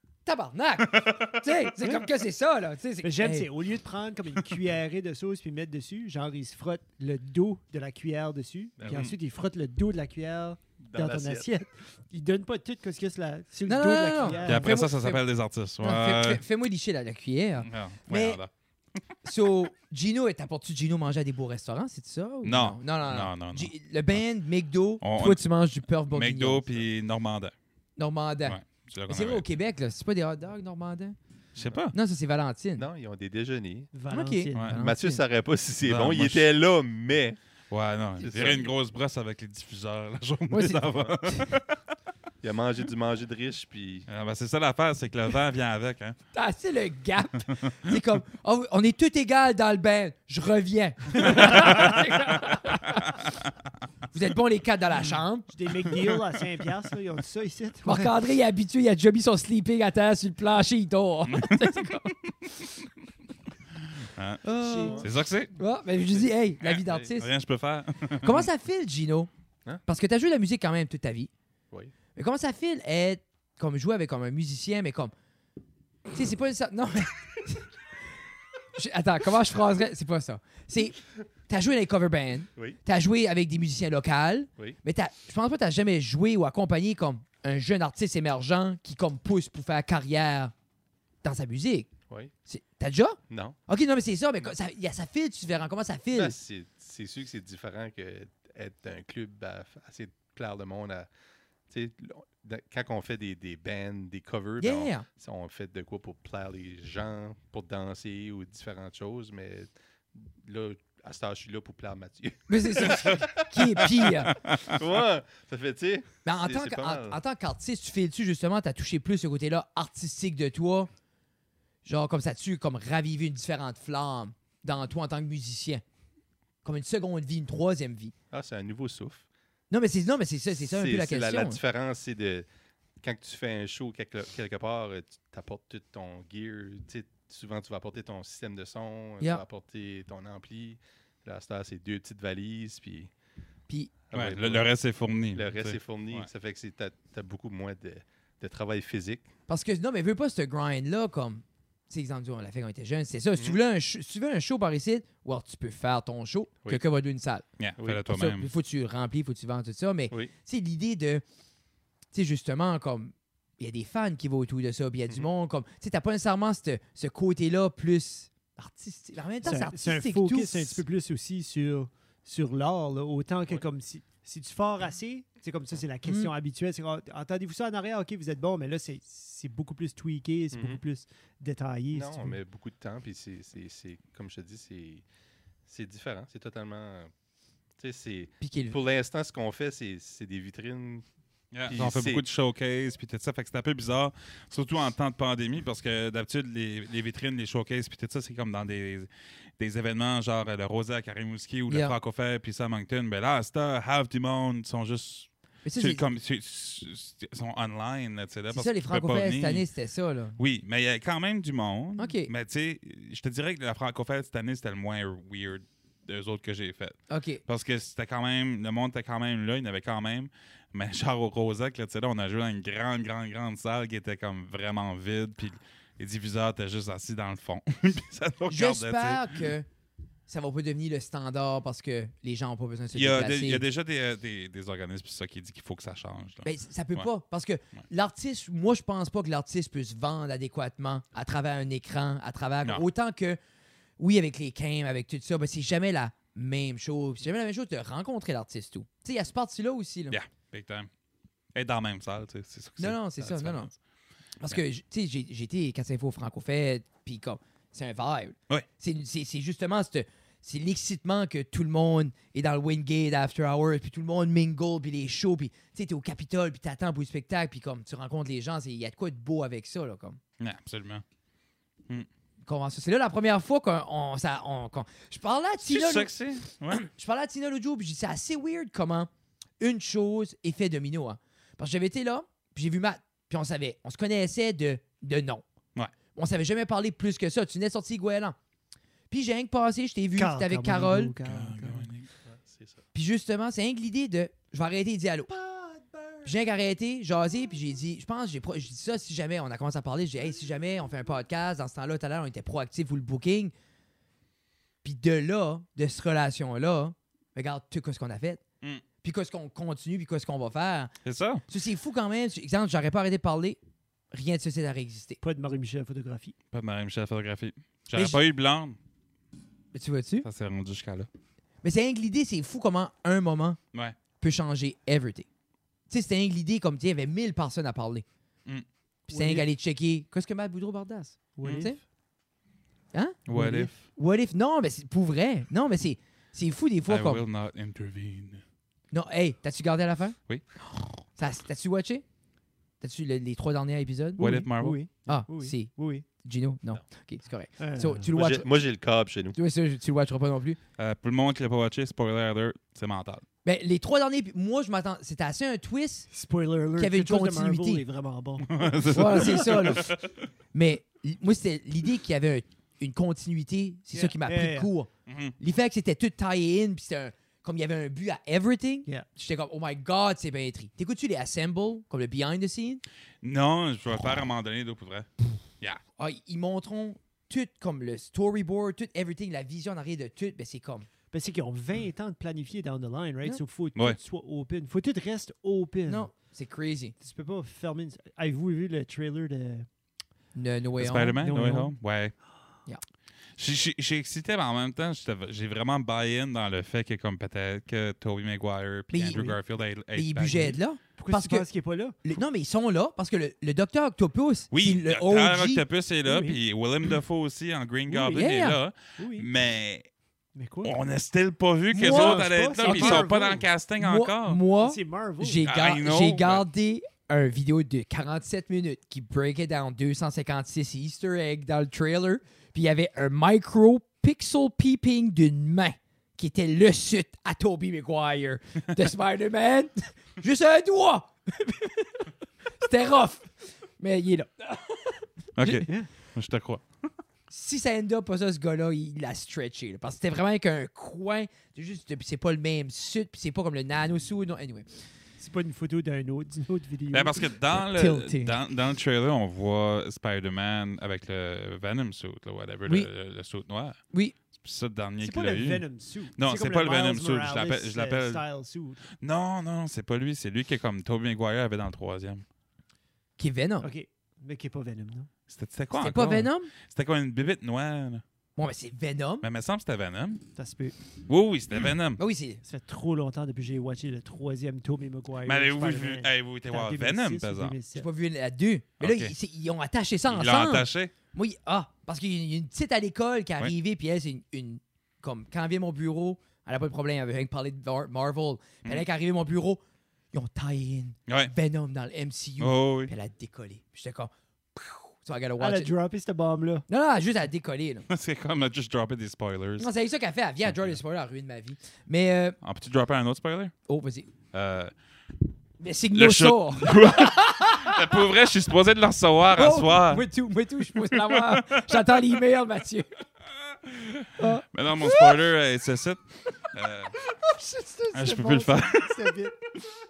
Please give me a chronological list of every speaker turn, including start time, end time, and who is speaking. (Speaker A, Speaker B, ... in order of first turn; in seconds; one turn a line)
Speaker A: 0.2-3.5
Speaker B: 3.0-14.9
Speaker C: 8.8-9.1
Speaker C: 10.8-11.5
Speaker A: 13.7-15.2
Speaker D: 14.4-16.4
Speaker A: 15.8-18.4
Speaker D: 17.6-18.5
Speaker A: 19.2-26.7
Speaker D: 22.4-24.2
Speaker D: 25.0-25.5
Speaker D: 26.1-27.5
Speaker A: 28.0-31.1
Speaker D: 28.4-29.4
Speaker D: 31.6-31.9
Speaker A: 31.9-32.9
Speaker C: 32.8-33.9
Speaker B: 33.9-34.7
Speaker A: 34.1-35.2
Speaker C: 34.7-37.4
Speaker D: 35.8-36.5
Speaker D: 37.7-41.7
Speaker C: 38.2-38.7
Speaker A: 40.5-41.5
Speaker C: 42.4-44.1
Speaker D: 44.1-46.2
Speaker A: 46.3-53.2
Speaker D: 51.4-52.1
Speaker A: 54.1-55.5
Speaker B: 55.5-58.1
Speaker A: 57.9-62.1
Speaker D: 61.3-62.1
Speaker D: 64.0-64.4
Speaker A: 64.4-65.0
Speaker B: 64.6-65.0
Speaker C: 64.8-65.1
Speaker D: 65.0-65.5
Speaker A: 65.5-67.3
Speaker D: 66.6-68.5
Speaker A: 68.2-69.3
Speaker A: 69.9-71.3
Speaker A: 72.1-75.1
Speaker A: 76.1-77.7
Speaker A: 78.8-90.5
Speaker A: 91.2-91.9
Speaker A: 92.5-96.4
Speaker C: 93.3-93.6
Speaker C: 96.1-101.1
Speaker C: 101.7-117.2
Speaker A: 104.6-105.1
Speaker A: 112.5-114.3
Speaker D: 114.3-114.8
Speaker A: 116.2-120.9
Speaker A: 121.8-125.8
Speaker A: 126.6-128.1
Speaker C: 128.3-129.2
Speaker A: 129.7-131.6
Speaker C: 130.6-132.4
Speaker C: 133.0-143.1
Speaker C: 144.1-144.7
Speaker D: 144.1-146.3
Speaker C: 145.3-149.3
Speaker A: 149.5-157.4
Speaker D: 157.6-158.5
Speaker C: 157.8-158.1
Speaker A: 158.1-161.2
Speaker A: 162.1-170.8
Speaker B: 169.4-182.4
Speaker A: 176.1-176.3
Speaker C: 180.5-180.8
Speaker C: 181.9-185.1
Speaker C: 185.7-187.1
Speaker C: 187.8-191.1
Speaker A: 188.4-188.8
Speaker D: 191.5-209.6
Speaker C: 191.7-192.2
Speaker A: 201.7-201.9
Speaker A: 205.6-206.0
Speaker A: 208.5-210.4
Speaker D: 210.4-229.5
Speaker A: 212.0-212.3
Speaker A: 217.1-217.4
Speaker A: 228.5-229.7
Speaker A: 230.3-233.6
Speaker D: 232.9-237.1
Speaker A: 236.4-243.4
Speaker A: 244.0-250.2
Speaker D: 250.1-250.9
Speaker D: 251.6-253.8
Speaker A: 252.8-253.7
Speaker A: 254.4-270.2
Speaker D: 270.4-271.0
Speaker A: 272.4-276.1
Speaker D: 275.6-276.9
Speaker A: 276.7-285.4
Speaker A: 286.1-288.4
Speaker A: 289.1-291.1
Speaker B: 290.2-291.9
Speaker D: 291.2-292.1
Speaker C: 292.2-292.8
Speaker A: 292.9-295.3
Speaker B: 295.3-296.3
Speaker A: 296.2-303.5
Speaker A: 304.8-308.4
Speaker A: 309.0-310.9
Speaker D: 311.1-311.4
Speaker A: 311.5-313.6
Speaker A: 314.1-315.2
Speaker B: 315.2-316.4
Speaker D: 316.5-318.8
Speaker A: 317.9-318.2
Speaker A: 319.7-320.3
Speaker D: 320.2-321.1
Speaker A: 321.6-323.6
Speaker A: 324.2-325.3
Speaker A: 325.9-328.1
Speaker B: 329.1-329.5
Speaker A: 329.1-331.8
Speaker B: 331.4-331.8
Speaker A: 332.9-337.2
Speaker D: 333.3-333.8
Speaker B: 333.3-333.7
Speaker D: 336.9-338.4
Speaker A: 338.9-340.2
Speaker A: 341.0-342.1
Speaker A: 342.8-344.3
Speaker B: 344.2-346.1
Speaker D: 344.2-344.8
Speaker A: 345.1-348.6
Speaker B: 347.6-348.1
Speaker C: 348.1-349.4
Speaker A: 349.3-350.6
Speaker D: 350.8-353.2
Speaker A: 353.4-356.1
Speaker B: 356.1-359.6
Speaker A: 356.8-357.9
Speaker D: 358.4-360.1
Speaker A: 358.9-359.9
Speaker A: 360.5-372.8
Speaker B: 363.9-364.7
Speaker D: 365.1-365.4
Speaker D: 373.2-375.1
Speaker A: 376.0-380.9
Speaker B: 381.1-386.1
Speaker A: 385.9-386.9
Speaker B: 387.0-389.7
Speaker A: 390.4-391.2
Speaker D: 390.8-392.1
Speaker B: 391.2-391.7
Speaker D: 393.4-400.6
Speaker A: 398.9-399.4
Speaker A: 399.9-401.5
Speaker B: 400.3-402.0
Speaker A: 402.0-405.6
Speaker D: 404.5-409.9
Speaker B: 406.1-406.4
Speaker B: 407.9-408.3
Speaker A: 408.1-408.6
Speaker B: 409.0-409.3
Speaker B: 410.4-410.7
Speaker D: 410.6-414.4
Speaker B: 411.7-413.5
Speaker A: 411.8-413.1
Speaker A: 413.8-432.1
Speaker B: 414.5-415.4
Speaker D: 415.4-416.4
Speaker A: 432.6-435.7
Speaker D: 435.4-436.6
Speaker A: 437.3-444.7
Speaker B: 445.2-447.4
Speaker D: 446.9-453.8
Speaker A: 447.7-448.4
Speaker D: 454.4-458.2
Speaker B: 455.0-458.8
Speaker D: 459.0-462.2
Speaker A: 463.2-463.7
Speaker B: 463.6-465.1
Speaker D: 465.3-468.0
Speaker A: 465.7-466.5
Speaker A: 468.4-469.2
Speaker D: 469.2-470.3
Speaker B: 470.4-470.8
Speaker D: 471.1-472.0
Speaker A: 472.0-472.4
Speaker B: 472.4-477.9
Speaker D: 475.2-477.6
Speaker A: 477.7-489.6
Speaker D: 478.8-479.1
Speaker D: 480.1-480.9
Speaker A: 490.1-495.7
Speaker D: 491.1-491.3
Speaker D: 492.4-492.9
Speaker B: 495.4-496.6
Speaker A: 496.7-497.9
Speaker D: 497.9-499.7
Speaker A: 499.6-502.4
Speaker D: 502.4-503.5
Speaker A: 503.6-504.1
Speaker D: 504.3-504.7
Speaker A: 505.6-508.1
Speaker D: 505.9-510.1
Speaker A: 509.3-513.0
Speaker D: 510.8-512.0
Speaker D: 513.5-517.0
Speaker A: 514.2-515.0
Speaker B: 517.2-519.4
Speaker D: 517.9-519.1